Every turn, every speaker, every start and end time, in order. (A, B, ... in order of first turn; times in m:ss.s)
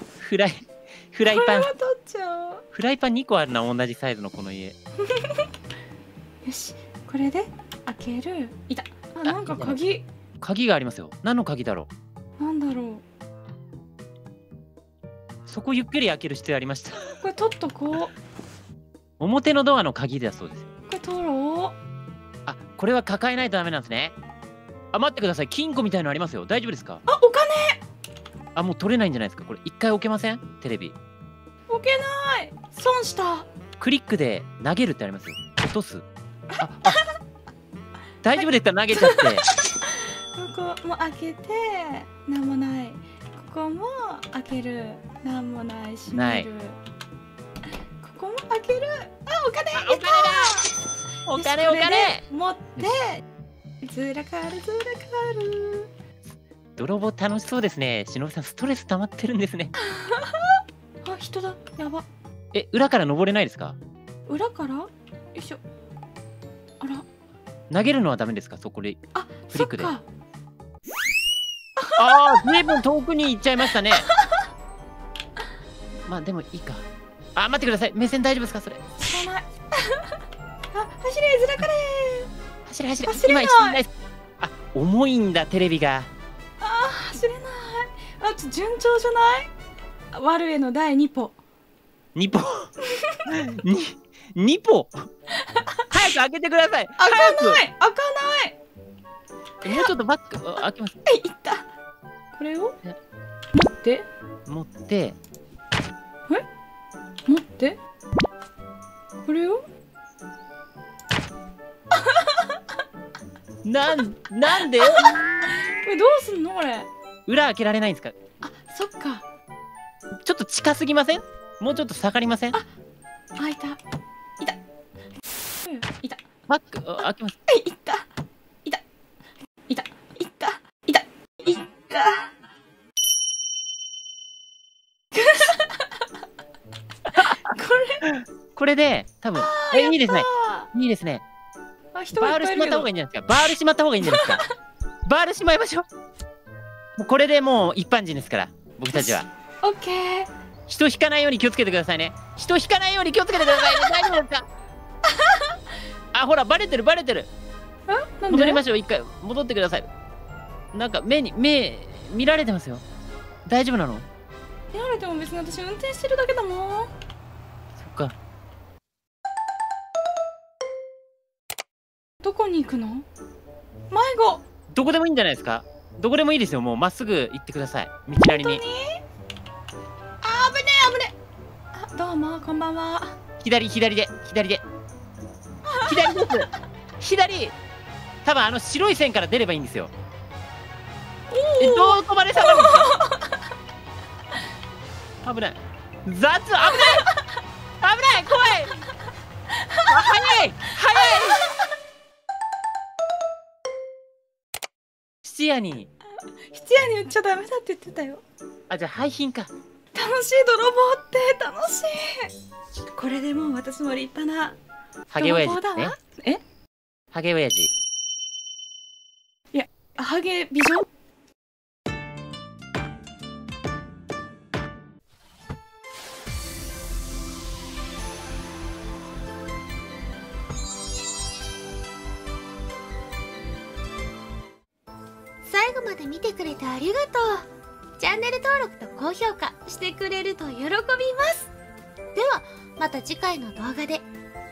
0:00.2-0:01.7 A
0:01.2-0:02.6 B
0:02.7-0:04.8 A
0:05.0-0:05.5 B
0:06.4-0:10.0 B
0:09.2-0:09.8 A
0:10.4-0:11.9 A
0:12.4-0:13.0 B
0:15.5-0:17.2 A
0:17.2-0:18.1 B
0:19.2-0:20.6 A
0:20.9-0:21.7 B
0:22.4-0:24.1 A
0:24.9-0:27.0 A
0:27.1-0:27.8 B
0:28.5-0:31.0 A
0:31.7-0:33.5 B
0:33.8-0:36.0 A
0:36.5-0:37.1 B
0:36.6-0:37.0 A
0:38.2-0:39.4 A
0:38.9-0:46.8 B
0:46.1-0:46.5 A
0:48.0-0:50.7 B
0:49.7-0:50.7 A
0:51.3-0:52.2 A
0:51.3-0:53.2 B
0:53.8-0:55.9 B
0:56.8-0:59.7 A
0:59.8-1:02.0 B
1:02.5-1:03.8 A
1:04.3-1:05.6 B
1:06.8-1:07.0 B
1:07.7-1:09.9 A
1:09.1-1:10.0 B
1:11.8-1:12.6 B
1:12.0-1:14.1 A
1:14.1-1:14.4 B
1:16.1-1:16.8 A
1:17.4-1:18.8 A
1:19.0-1:20.2 B
1:20.7-1:22.3 B
1:22.6-1:26.1 A
1:23.0-1:23.8 B
1:26.6-1:29.5 B
1:30.1-1:31.4 B
1:32.1-1:32.7 A
1:32.9-1:33.2 B
1:33.2-1:35.1 A
1:35.4-1:35.8 B
1:35.9-1:37.6 A
1:37.0-1:38.6 B
1:39.6-1:40.9 A
1:41.0-1:41.6 B
1:42.3-1:42.8 B
1:43.5-1:44.0 B
1:44.5-1:45.2 A
1:47.2-1:47.8 B
1:49.2-1:49.6 B
1:51.9-1:52.6 B
1:53.6-1:55.2 A
1:54.8-1:56.9 B
1:57.3-1:58.1 A
1:58.4-1:59.2 B
2:00.2-2:02.6 A
2:03.4-2:03.8 B
2:05.6-2:06.2 B
2:06.5-2:07.4 A
2:07.5-2:08.0 B
2:09.7-2:12.3 B
2:15.1-2:16.1 B
2:17.1-2:18.1 B
2:18.0-2:21.2 A
2:19.3-2:20.7 B
2:21.9-2:22.9 B
2:22.2-2:24.4 A
2:24.0-2:24.5 B
2:25.0-2:25.9 A
2:27.0-2:29.3 A
2:28.9-2:30.3 B
2:30.7-2:34.5 A
2:33.5-2:33.9 B
2:35.1-2:35.6 B
2:36.1-2:37.3 A
2:37.9-2:38.6 B
2:38.3-2:39.9 A
2:40.7-2:42.8 A
2:43.4-2:44.1 A
2:44.7-2:46.9 B
2:47.8-2:48.1 A
2:52.2-2:53.0 B
2:53.9-2:54.4 B
2:54.7-2:58.6 A
2:58.2-2:59.0 B
3:00.2-3:01.1 B
3:01.7-3:03.2 B
3:03.4-3:04.6 A
3:05.6-3:06.3 B
3:05.8-3:06.5 A
3:07.0-3:07.5 A
3:08.2-3:09.9 A
3:11.3-3:13.4 B
3:11.6-3:12.9 A
3:15.2-3:17.1 A
3:16.7-3:17.2 B
3:17.8-3:18.8 A
3:19.5-3:21.7 B
3:19.9-3:21.4 A
3:25.2-3:25.9 A
3:26.5-3:28.2 B
3:28.7-3:29.5 A
3:29.9-3:32.3 B
3:32.9-3:34.6 B
3:35.1-3:36.0 A
3:35.2-3:36.4 B
3:37.1-3:37.7 A
3:39.5-3:40.9 B
3:55.4-4:01.5 C
4:02.1-4:04.0 C